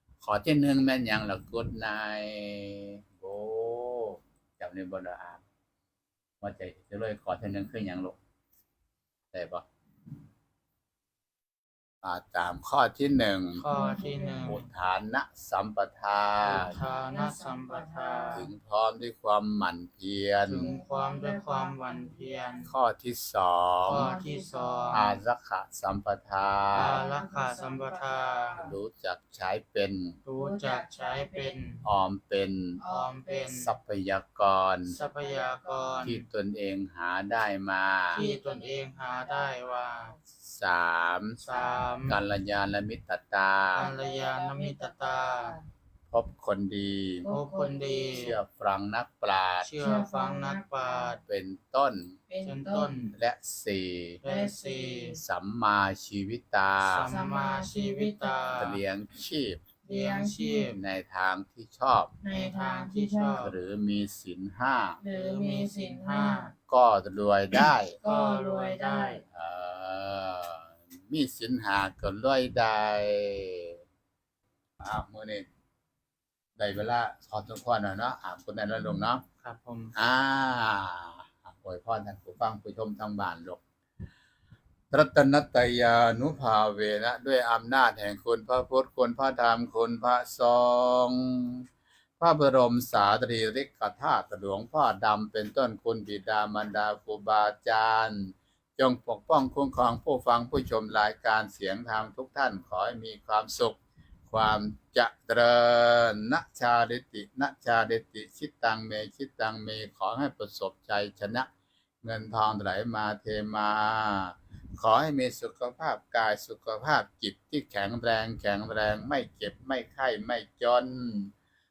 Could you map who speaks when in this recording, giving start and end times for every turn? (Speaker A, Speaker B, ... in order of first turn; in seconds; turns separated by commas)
Speaker A: 0.2-5.4, Speaker A: 6.4-8.2, Speaker A: 9.3-9.7, Speaker A: 12.0-13.6, Speaker B: 13.6-14.7, Speaker C: 13.7-14.5, Speaker A: 14.4-16.7, Speaker B: 16.4-18.5, Speaker C: 16.6-18.5, Speaker A: 18.3-20.7, Speaker B: 20.4-22.7, Speaker C: 20.5-22.7, Speaker A: 22.6-24.1, Speaker B: 23.9-25.0, Speaker C: 23.9-25.2, Speaker A: 24.9-27.0, Speaker B: 26.7-28.6, Speaker C: 26.7-28.8, Speaker A: 28.5-30.2, Speaker B: 30.2-31.8, Speaker C: 30.4-31.8, Speaker A: 31.8-32.8, Speaker C: 32.8-33.6, Speaker B: 32.8-33.7, Speaker A: 33.5-34.9, Speaker B: 34.9-36.2, Speaker C: 34.9-36.1, Speaker A: 36.0-38.2, Speaker B: 38.1-40.1, Speaker C: 38.1-40.2, Speaker A: 40.5-41.4, Speaker B: 41.4-42.2, Speaker C: 41.5-42.0, Speaker A: 42.1-43.9, Speaker B: 43.7-45.6, Speaker C: 43.8-45.6, Speaker A: 46.1-47.3, Speaker C: 47.2-48.4, Speaker B: 47.3-48.4, Speaker A: 48.1-49.7, Speaker B: 49.6-51.2, Speaker C: 49.8-51.2, Speaker A: 51.2-52.2, Speaker C: 52.3-53.0, Speaker B: 52.4-53.1, Speaker A: 53.1-54.2, Speaker B: 54.2-55.2, Speaker C: 54.2-55.2, Speaker A: 55.2-57.1, Speaker B: 56.8-58.8, Speaker C: 57.0-58.7, Speaker A: 58.6-59.6, Speaker C: 59.8-60.8, Speaker B: 59.9-60.8, Speaker A: 60.7-62.1, Speaker C: 62.2-63.5, Speaker B: 62.3-63.6, Speaker A: 63.4-65.0, Speaker C: 65.0-66.5, Speaker B: 65.0-66.5, Speaker A: 66.7-68.0, Speaker C: 68.0-69.2, Speaker B: 68.0-69.2, Speaker A: 69.3-73.8, Speaker A: 74.8-75.5, Speaker A: 76.6-79.2, Speaker B: 79.4-79.9, Speaker A: 79.9-83.6, Speaker A: 84.9-91.6, Speaker A: 92.2-103.8, Speaker A: 104.3-111.5, Speaker A: 112.0-121.3